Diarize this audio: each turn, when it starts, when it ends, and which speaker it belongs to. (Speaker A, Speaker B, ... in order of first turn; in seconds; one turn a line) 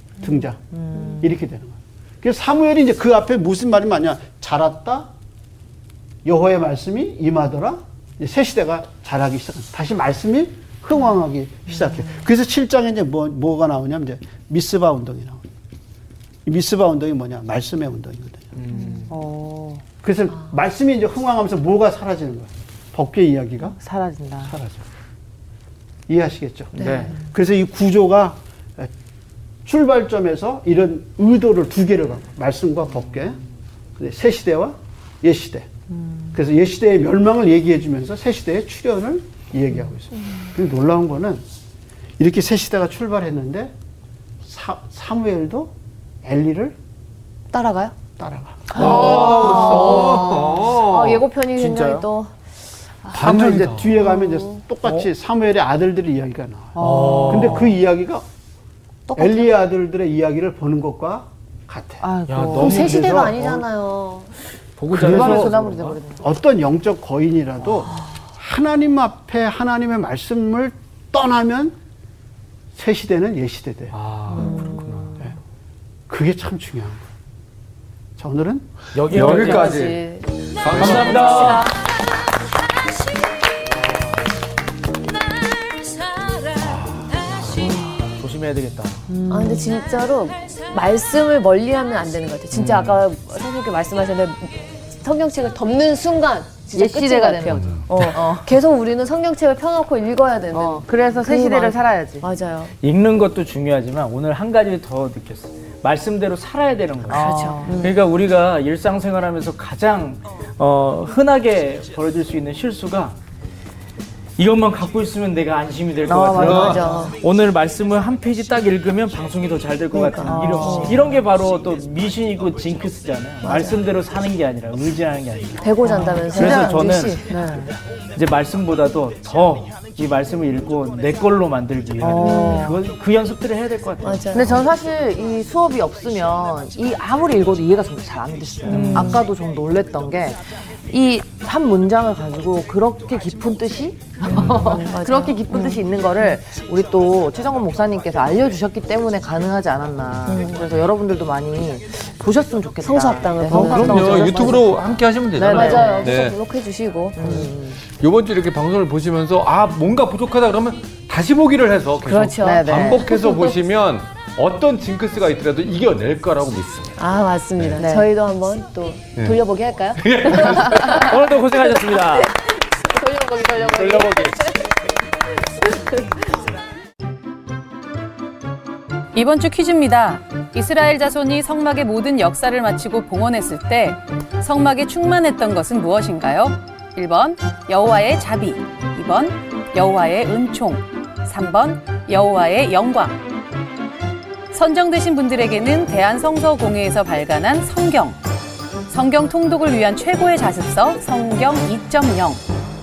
Speaker A: 0.2-5.1
Speaker B: 0.7-1.3
Speaker A: 6.2-15.4
Speaker A: 16.4-18.5
Speaker C: 18.6-19.1
Speaker D: 18.7-19.0
Speaker B: 19.1-19.8
Speaker A: 20.0-23.8
Speaker B: 23.8-24.5
Speaker A: 24.4-24.9
Speaker A: 26.1-28.9
Speaker C: 26.8-27.1
Speaker D: 26.8-27.1
Speaker A: 29.6-33.4
Speaker A: 34.0-35.7
Speaker B: 36.0-36.3
Speaker A: 36.3-41.4
Speaker A: 42.2-43.7
Speaker A: 44.4-46.8
Speaker D: 47.5-48.0
Speaker A: 48.2-49.6
Speaker E: 48.7-51.2
Speaker D: 48.8-52.3
Speaker B: 48.9-50.5
Speaker C: 49.0-49.4
Speaker C: 51.5-52.1
Speaker A: 53.1-58.2
Speaker E: 53.1-54.0
Speaker D: 54.0-54.6
Speaker B: 56.7-57.7
Speaker C: 56.8-57.8
Speaker D: 59.1-59.6
Speaker A: 59.1-63.6
Speaker B: 62.0-62.8
Speaker C: 62.3-63.1
Speaker D: 62.5-64.3
Speaker C: 64.8-66.0
Speaker A: 64.9-71.8
Speaker B: 64.9-66.2
Speaker A: 72.7-73.9
Speaker C: 73.9-75.2
Speaker B: 74.3-75.3
Speaker D: 74.3-74.9
Speaker A: 76.1-77.0
Speaker A: 78.2-78.7
Speaker C: 78.9-79.9
Speaker E: 79.0-81.7
Speaker D: 79.1-81.8
Speaker C: 80.7-81.7
Speaker E: 86.6-87.2
Speaker C: 87.3-89.1
Speaker B: 89.1-89.8
Speaker D: 89.3-102.7
Speaker C: 92.5-93.0
Speaker B: 96.7-98.5
Speaker B: 100.5-102.2
Speaker C: 102.8-113.2
Speaker B: 107.1-107.9
Speaker D: 107.1-108.0
Speaker C: 114.4-127.3
Speaker B: 116.0-117.1
Speaker D: 116.4-117.2
Speaker E: 116.4-116.7
Speaker D: 119.9-121.1
Speaker B: 120.2-121.2
Speaker D: 123.4-123.8
Speaker D: 125.6-127.4
Speaker B: 125.8-127.7
Speaker C: 128.2-134.3
Speaker B: 132.0-132.8
Speaker D: 132.2-132.8
Speaker D: 134.0-134.7
Speaker B: 134.3-154.7
Speaker D: 138.7-139.2
Speaker C: 138.7-139.2
Speaker D: 144.2-145.9
Speaker C: 144.3-144.6
Speaker D: 150.2-150.7
Speaker D: 152.8-154.7
Speaker E: 153.5-156.4
Speaker B: 155.3-156.2
Speaker D: 155.4-157.5
Speaker B: 157.2-157.8
Speaker E: 157.2-167.0
Speaker D: 162.0-163.5
Speaker B: 162.4-163.1
Speaker D: 167.0-171.2
Speaker E: 167.6-167.8
Speaker B: 167.8-168.1
Speaker E: 169.9-171.1
Speaker C: 170.6-172.3
Speaker D: 171.9-174.6
Speaker C: 173.8-174.4
Speaker F: 179.1-193.2
Speaker F: 194.5-198.2
Speaker F: 198.9-202.4